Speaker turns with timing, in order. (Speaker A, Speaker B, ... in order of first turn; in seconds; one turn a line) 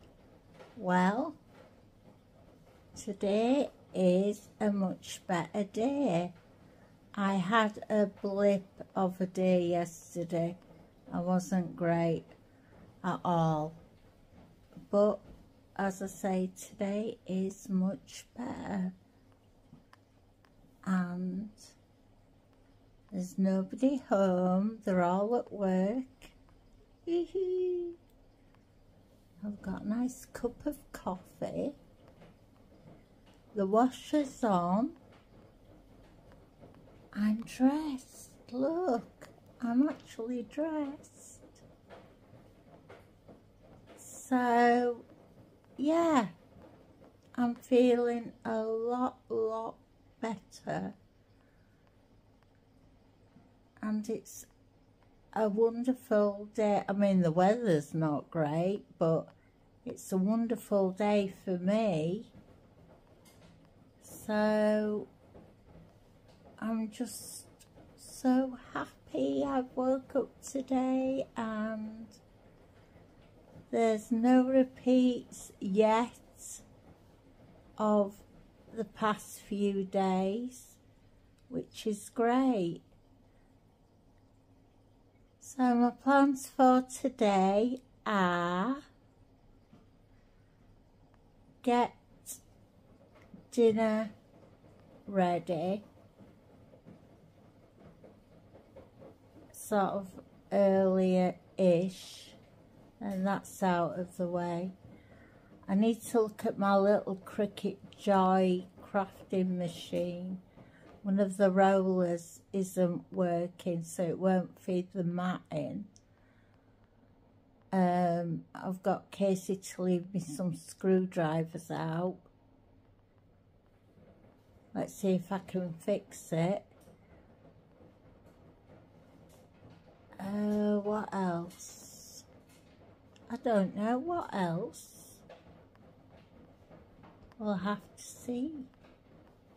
Speaker A: 0.8-1.4
Speaker A: 2.9-6.3
Speaker A: 7.1-12.3
Speaker A: 13.0-13.8
Speaker A: 14.9-15.2
Speaker A: 15.7-18.9
Speaker A: 20.8-21.7
Speaker A: 23.1-26.4
Speaker A: 27.1-28.0
Speaker A: 29.4-31.8
Speaker A: 33.5-35.0
Speaker A: 37.1-41.6
Speaker A: 44.0-45.0
Speaker A: 45.8-46.3
Speaker A: 47.4-51.0
Speaker A: 53.8-54.5
Speaker A: 55.3-59.3
Speaker A: 59.8-62.3
Speaker A: 64.0-65.1
Speaker A: 66.6-72.2
Speaker A: 73.7-76.6
Speaker A: 77.8-80.8
Speaker A: 81.5-82.8
Speaker A: 85.4-88.8
Speaker A: 91.6-92.4
Speaker A: 93.5-94.1
Speaker A: 95.0-95.8
Speaker A: 99.5-102.4
Speaker A: 103.0-104.7
Speaker A: 105.7-110.4
Speaker A: 111.0-115.9
Speaker A: 117.7-122.2
Speaker A: 124.7-126.7
Speaker A: 130.2-132.2
Speaker A: 133.3-135.2
Speaker A: 137.4-138.7